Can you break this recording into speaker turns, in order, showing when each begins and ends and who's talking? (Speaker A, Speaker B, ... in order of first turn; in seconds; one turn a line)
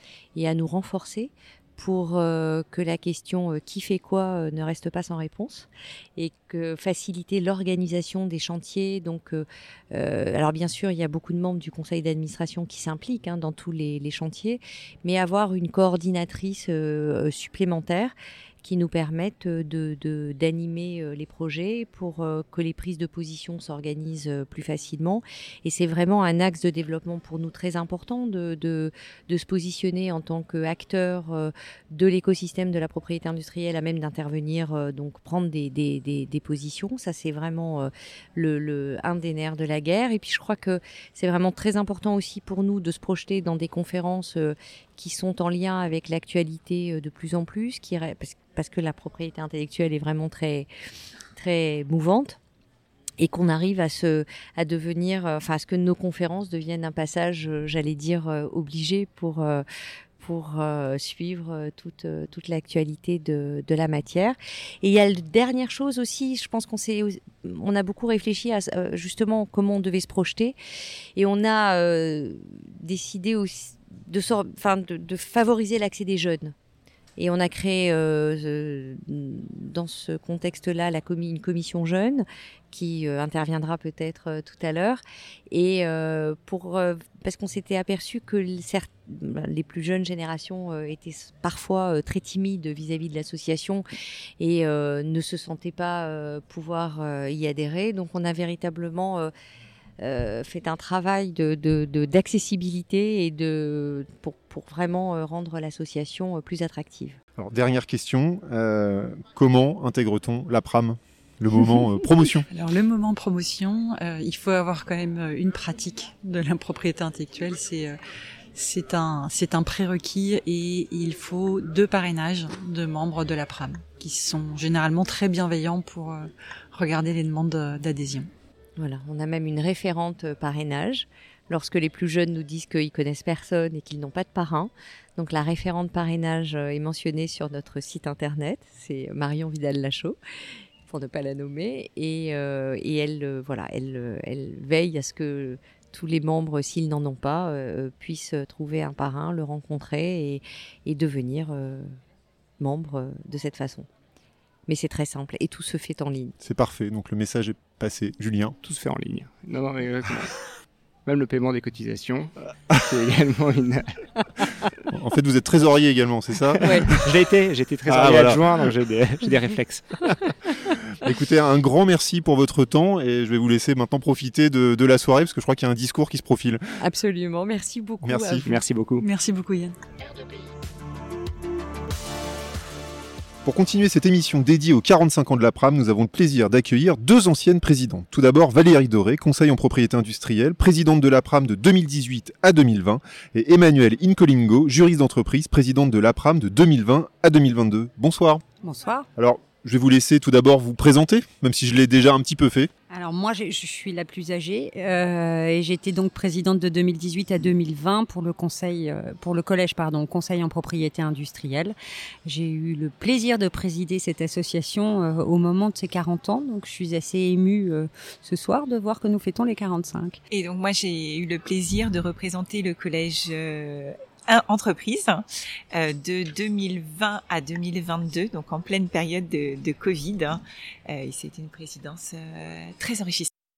Speaker A: 0.3-50.7
Speaker A: 51.3-52.4
Speaker A: 53.2-59.6
Speaker A: 60.2-70.5
Speaker A: 71.2-76.5
Speaker A: 77.2-93.8
Speaker A: 94.4-99.3
Speaker A: 100.0-107.2
Speaker B: 107.3-112.4
Speaker C: 112.5-118.0
Speaker C: 118.5-128.3
Speaker A: 128.8-140.2
Speaker A: 140.8-152.0
Speaker A: 152.6-153.9
Speaker A: 154.7-156.3
Speaker B: 156.4-158.6
Speaker D: 158.6-160.4
Speaker D: 161.1-164.4
Speaker B: 164.9-167.0
Speaker A: 166.6-166.9
Speaker D: 166.9-170.0
Speaker B: 167.8-168.5
Speaker B: 171.0-176.6
Speaker A: 176.8-178.4
Speaker B: 178.0-178.5
Speaker D: 178.4-179.1
Speaker C: 179.0-179.8
Speaker B: 183.4-198.4
Speaker E: 198.6-199.1
Speaker B: 199.2-202.7
Speaker E: 202.9-220.2
Speaker F: 220.3-233.3